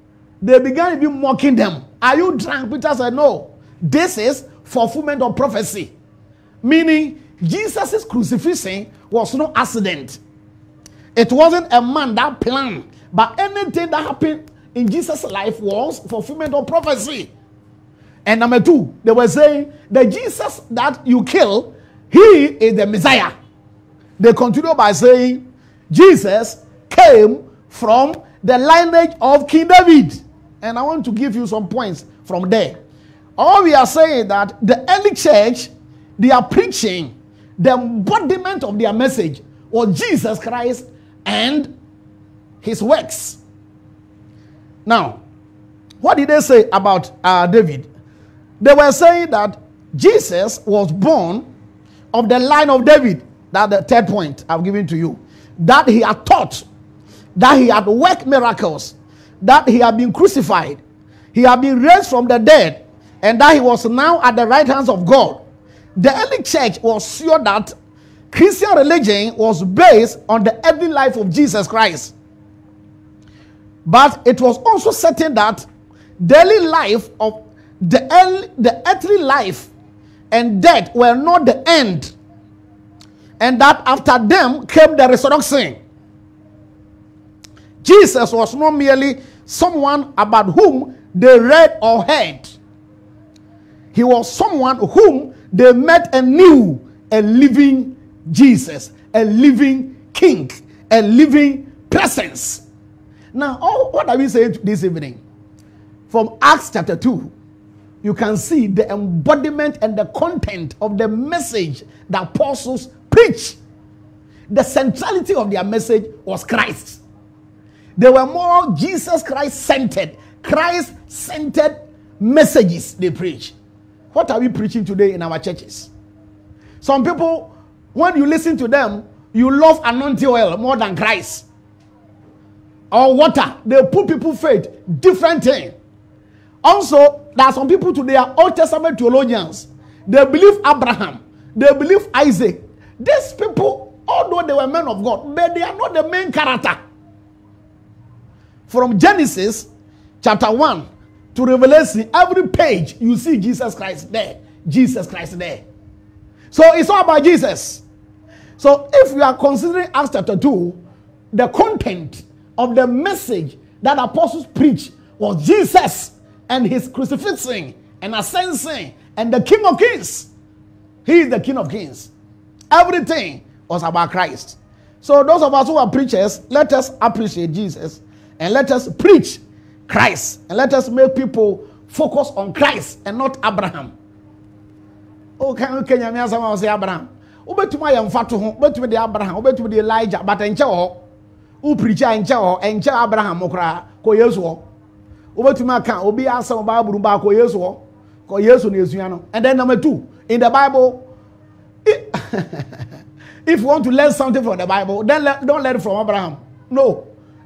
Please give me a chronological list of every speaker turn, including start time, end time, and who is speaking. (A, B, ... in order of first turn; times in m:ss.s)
0:00.4-0:05.9 A
0:06.6-0:10.2 A
0:11.1-0:17.3 A
0:18.2-0:23.3 A
0:24.2-0:32.8 A
0:33.4-0:41.7 A
0:42.6-0:43.4 A
0:44.8-0:45.2 A
0:46.0-0:47.9 A
0:48.6-0:51.5 A
0:52.1-0:56.6 A
0:57.4-1:00.8 A
1:01.3-1:05.4 A
1:06.0-1:07.7 A
1:08.3-1:12.1 A
1:13.8-1:15.7 A
1:16.2-1:19.7 A
1:20.3-1:22.1 A
1:23.4-1:25.8 A
1:27.8-1:32.6 A
1:33.9-1:42.6 A
1:43.3-1:45.2 A
1:46.1-1:47.3 A
1:48.0-1:53.6 A
1:54.5-1:57.0 A
1:58.0-2:03.5 A
2:04.1-2:05.9 A
2:06.8-2:11.4 A
2:12.9-2:15.7 A
2:16.6-2:26.8 A
2:28.7-2:29.7 A
2:30.2-2:35.6 A
2:36.5-2:37.8 A
2:38.6-2:40.8 A
2:41.3-2:50.3 A
2:51.0-2:52.1 A
2:52.7-3:03.9 A
3:05.4-3:11.0 A
3:11.6-3:14.6 A
3:15.3-3:21.1 A
3:21.8-3:22.8 A
3:23.4-3:27.1 A